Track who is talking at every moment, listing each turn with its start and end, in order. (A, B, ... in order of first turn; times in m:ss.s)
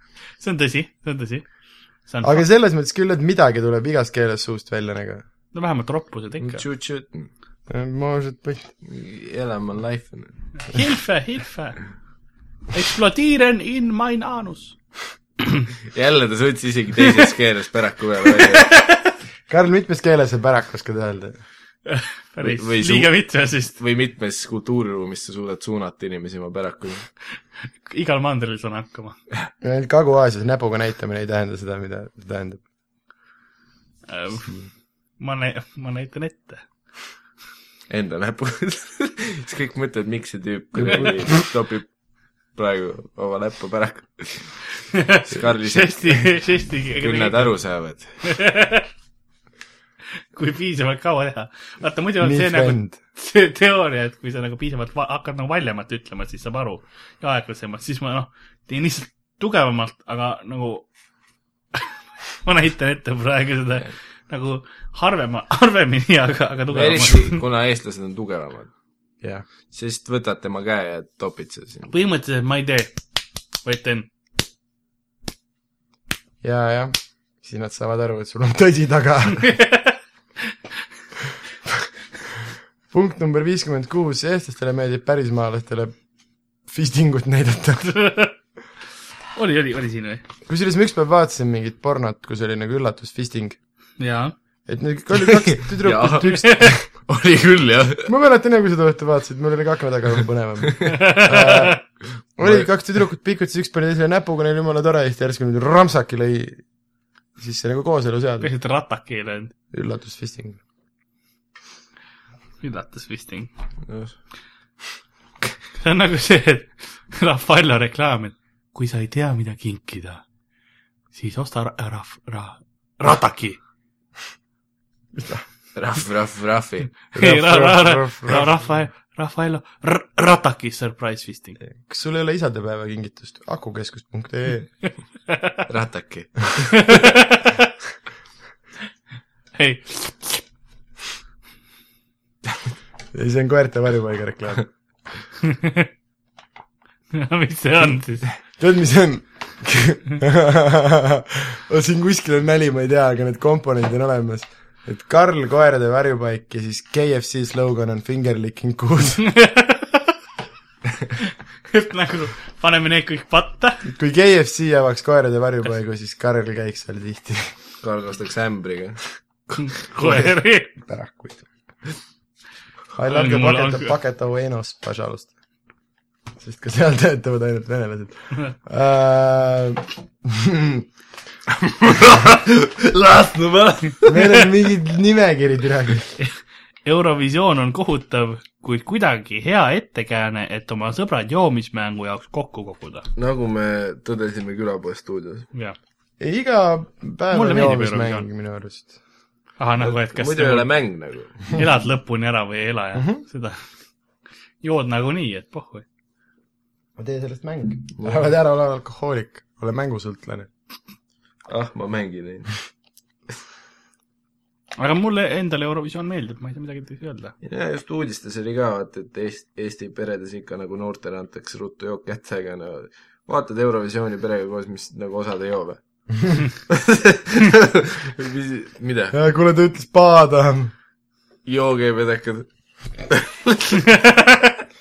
0:00.4-0:01.4 A
0:02.1-0:02.4 A
0:02.2-0:05.2 B
0:05.5-0:06.6 A
0:06.4-0:07.3 C
0:07.7-0:08.7 B
0:08.8-0:10.3 C
0:10.6-0:11.8 A
0:12.7-0:14.8 A
0:15.9-0:18.7 C
0:18.3-0:19.1 A
0:19.5-0:21.4 B
0:21.9-0:23.8 A
0:22.4-0:23.2 C
0:23.7-0:27.1 C
0:27.8-0:29.2 A
0:29.6-0:32.6 B
0:34.1-0:34.6 A
0:35.2-0:36.6 A
0:37.9-0:41.9 C
0:40.8-0:41.1 B
0:42.6-0:44.6 C
0:44.9-0:47.6 A
0:45.2-0:46.4 C
0:47.0-0:48.2 C
0:48.2-0:48.9 A
0:50.3-1:00.9 A
0:52.2-0:53.0 B
1:02.4-1:07.4 A
1:06.7-1:08.7 C
1:09.7-1:11.9 C
1:11.9-1:13.0 A
1:13.6-1:14.1 A
1:16.4-1:19.5 B
1:19.5-1:19.9 A
1:22.9-1:26.0 B
1:26.6-1:27.9 B
1:27.8-1:28.3 A
1:29.4-1:30.2 A
1:30.5-1:33.6 B
1:34.0-1:34.4 A
1:34.7-1:36.8 B
1:35.2-1:38.1 C
1:36.4-1:36.8 A
1:38.0-1:41.8 B
1:40.9-1:41.8 A
1:42.4-1:46.6 B
1:47.4-1:48.5 B
1:48.4-1:49.5 A
1:49.7-1:50.6 B
1:52.6-1:53.5 A
1:53.9-1:54.1 C
1:55.8-2:00.2 A
2:01.1-2:03.6 A
2:05.1-2:05.4 B
2:05.8-2:06.9 C
2:07.1-2:08.6 B
2:07.1-2:11.6 A
2:11.6-2:14.7 B
2:15.3-2:15.6 A
2:15.7-2:17.0 C
2:16.8-2:17.7 A
2:19.6-2:20.4 A
2:23.1-2:24.7 B
2:25.4-2:25.9 A
2:27.1-2:28.3 A
2:28.6-2:39.2 B
2:39.2-2:40.1 A
2:41.2-2:43.8 A
2:43.8-2:47.5 B
2:47.8-2:49.0 C
2:49.6-2:50.7 A
2:50.0-2:51.5 B
2:52.9-2:55.3 B
2:53.1-2:53.9 A
2:56.4-3:00.8 B
3:01.6-3:04.4 C
3:04.1-3:06.2 B
3:06.2-3:13.1 A
3:13.2-3:15.5 C
3:16.2-3:18.9 B
3:17.3-3:18.2 A
3:19.6-3:20.7 A
3:19.8-3:21.4 C
3:21.5-3:23.6 A
3:23.0-3:23.2 B
3:24.6-3:25.8 A
3:27.0-3:30.5 B
3:28.0-3:28.3 C
3:31.5-3:32.5 C
3:34.8-3:37.3 A
3:37.4-3:45.8 C
3:46.7-3:49.2 C
3:49.1-3:50.7 B
3:51.4-3:52.5 C
3:53.1-3:53.8 C
3:53.9-3:54.5 A